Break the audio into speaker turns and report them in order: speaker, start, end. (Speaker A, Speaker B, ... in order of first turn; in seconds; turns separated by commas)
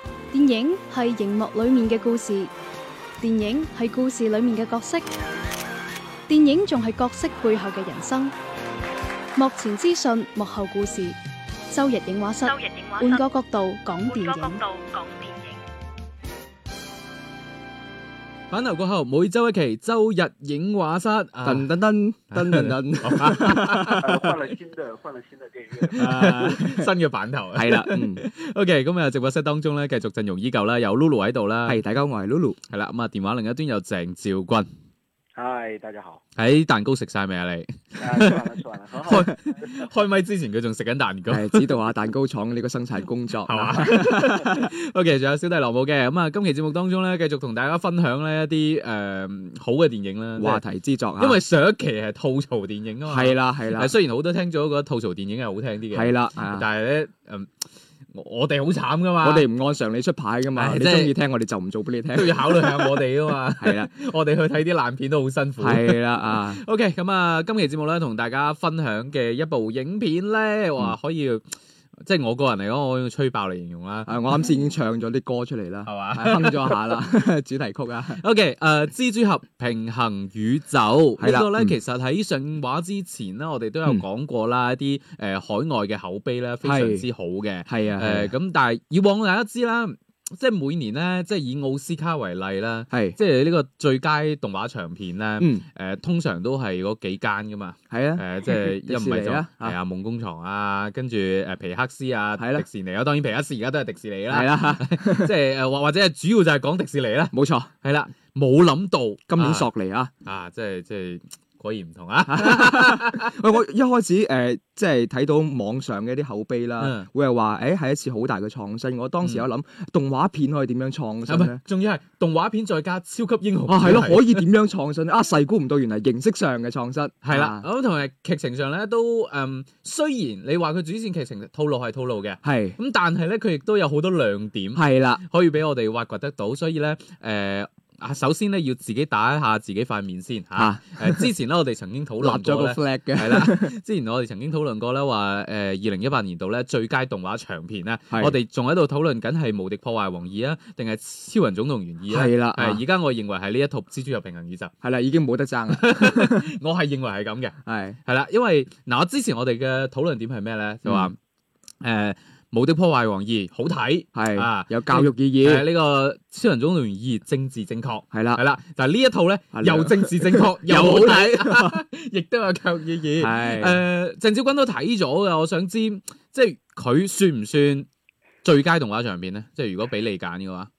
Speaker A: 0.3-2.5, Speaker A: 3.2-5.0, Speaker A: 6.3-8.3, Speaker A: 9.4-11.2, Speaker A: 11.7-15.3, Speaker B: 12.5-13.1, Speaker B: 14.1-15.6, Speaker C: 18.5-21.7, Speaker D: 21.4-24.2, Speaker C: 22.3-24.2, Speaker E: 24.0-26.1, Speaker C: 25.9-31.8, Speaker D: 25.9-26.9, Speaker D: 27.5-28.2, Speaker D: 31.7-32.6, Speaker C: 32.7-34.7, Speaker E: 35.4-36.2, Speaker C: 36.4-38.4, Speaker E: 38.0-39.3, Speaker C: 39.0-41.7, Speaker D: 41.3-44.6, Speaker C: 43.5-50.6, Speaker D: 50.4-51.4, Speaker C: 51.2-57.5, Speaker D: 53.0-54.0, Speaker D: 55.9-56.7, Speaker C: 58.1-59.5, Speaker D: 59.2-63.0, Speaker C: 60.6-61.1, Speaker C: 62.1-71.4, Speaker D: 63.6-63.9, Speaker D: 65.6-66.6, Speaker C: 72.0-74.2, Speaker D: 74.1-78.2, Speaker C: 75.9-77.0, Speaker C: 78.2-109.7, Speaker D: 81.2-81.8, Speaker D: 86.6-87.1, Speaker D: 87.7-88.3, Speaker D: 92.9-93.2, Speaker D: 95.4-95.6, Speaker D: 97.9-99.8, Speaker D: 102.4-102.7, Speaker D: 104.3-105.3, Speaker D: 107.3-107.7, Speaker D: 109.3-110.1, Speaker C: 110.2-113.4, Speaker D: 112.3-121.6, Speaker C: 116.8-117.1, Speaker C: 119.2-119.5, Speaker C: 121.3-124.4, Speaker D: 123.7-127.7, Speaker C: 127.2-154.7, Speaker D: 132.4-132.8, Speaker D: 134.8-135.2, Speaker D: 140.6-141.3, Speaker D: 142.2-143.7, Speaker D: 152.1-152.8, Speaker D: 154.8-156.5, Speaker C: 155.7-161.2, Speaker D: 157.7-158.0, Speaker D: 160.8-161.1, Speaker C: 161.8-177.9, Speaker D: 164.2-165.7, Speaker D: 168.1-168.4, Speaker D: 169.6-171.8, Speaker D: 173.2-173.8, Speaker C: 178.4-180.7